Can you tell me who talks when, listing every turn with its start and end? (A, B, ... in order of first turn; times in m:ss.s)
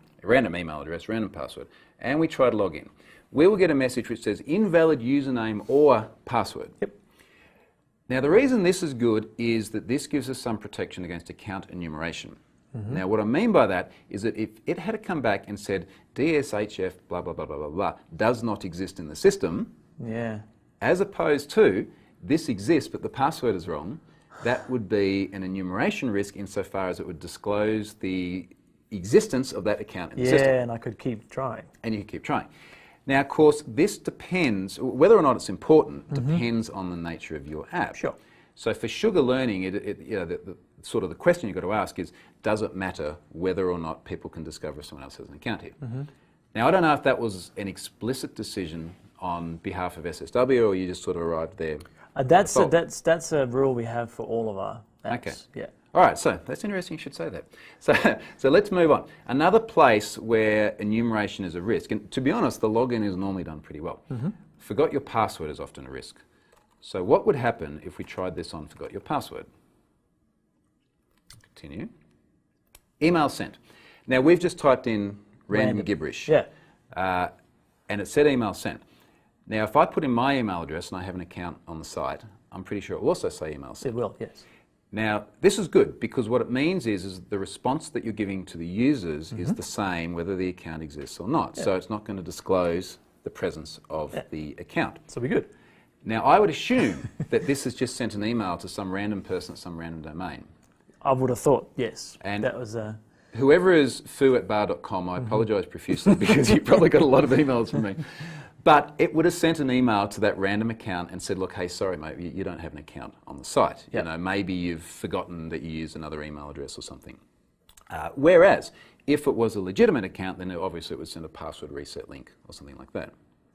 0:00.2-0:06.9 A
0:08.1-0:12.4 A
0:12.7-0:13.0 B
0:12.9-0:19.8 A
0:20.0-0:20.4 B
0:20.8-0:30.5 A
0:30.2-0:31.7 B
0:31.8-0:32.5 A
0:33.1-0:38.0 A
0:36.1-0:36.4 B
0:38.6-0:45.8 A
0:46.5-0:51.8 A
0:52.2-0:55.7 B
0:52.3-0:52.7 A
0:55.1-0:55.4 A
0:55.9-1:06.2 A
1:06.8-1:09.5 A
1:11.5-1:11.9 A
1:13.0-1:16.3 A
1:15.5-1:16.5 B
1:16.9-1:17.3 A
1:17.9-1:18.8 A
1:19.5-1:23.9 A
1:23.8-1:24.4 B
1:24.9-1:35.0 A
1:35.1-1:35.5 B
1:36.0-1:40.5 A
1:41.0-1:43.0 B
1:42.2-1:42.5 A
1:43.3-1:57.2 A
1:57.9-2:03.1 A